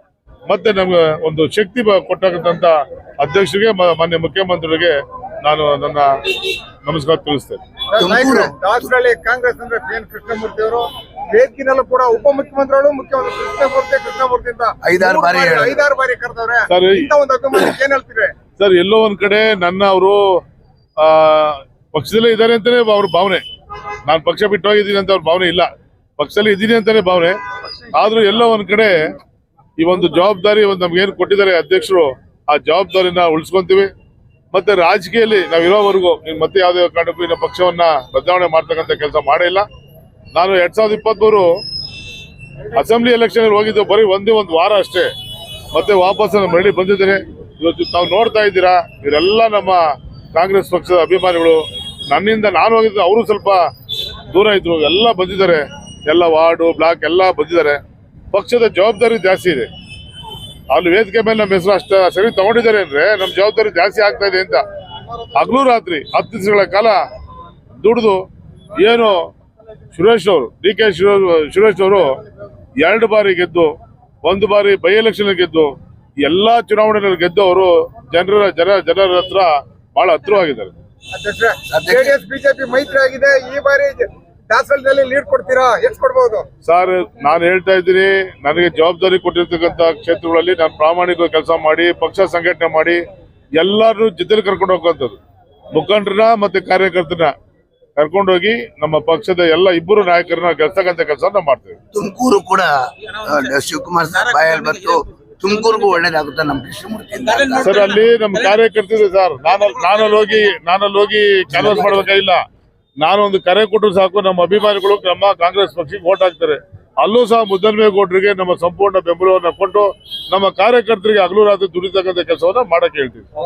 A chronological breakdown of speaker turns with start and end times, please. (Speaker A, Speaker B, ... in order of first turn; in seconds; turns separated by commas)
Speaker A: 0.5-6.1, Speaker A: 6.8-7.6, Speaker B: 7.9-18.3, Speaker C: 8.0-8.9, Speaker C: 14.8-15.9, Speaker A: 16.7-17.1, Speaker A: 18.6-20.2, Speaker A: 21.0-23.4, Speaker A: 24.1-27.4, Speaker A: 27.9-28.9, Speaker A: 29.8-33.9, Speaker A: 34.5-39.7, Speaker A: 40.3-41.5, Speaker A: 42.7-45.1, Speaker A: 45.7-53.6, Speaker A: 54.3-57.8, Speaker A: 58.3-59.7, Speaker A: 60.7-64.6, Speaker A: 65.3-67.0, Speaker A: 67.8-68.2, Speaker A: 68.7-69.3, Speaker A: 69.9-72.2, Speaker A: 72.8-73.7, Speaker A: 74.2-75.7, Speaker A: 76.2-80.7, Speaker B: 81.1-86.5, Speaker C: 81.7-82.1, Speaker A: 86.6-93.0, Speaker A: 93.6-95.2, Speaker A: 95.7-97.3, Speaker A: 98.0-101.8, Speaker C: 101.9-107.8, Speaker A: 107.6-112.4, Speaker C: 111.5-111.9, Speaker A: 113.0-123.3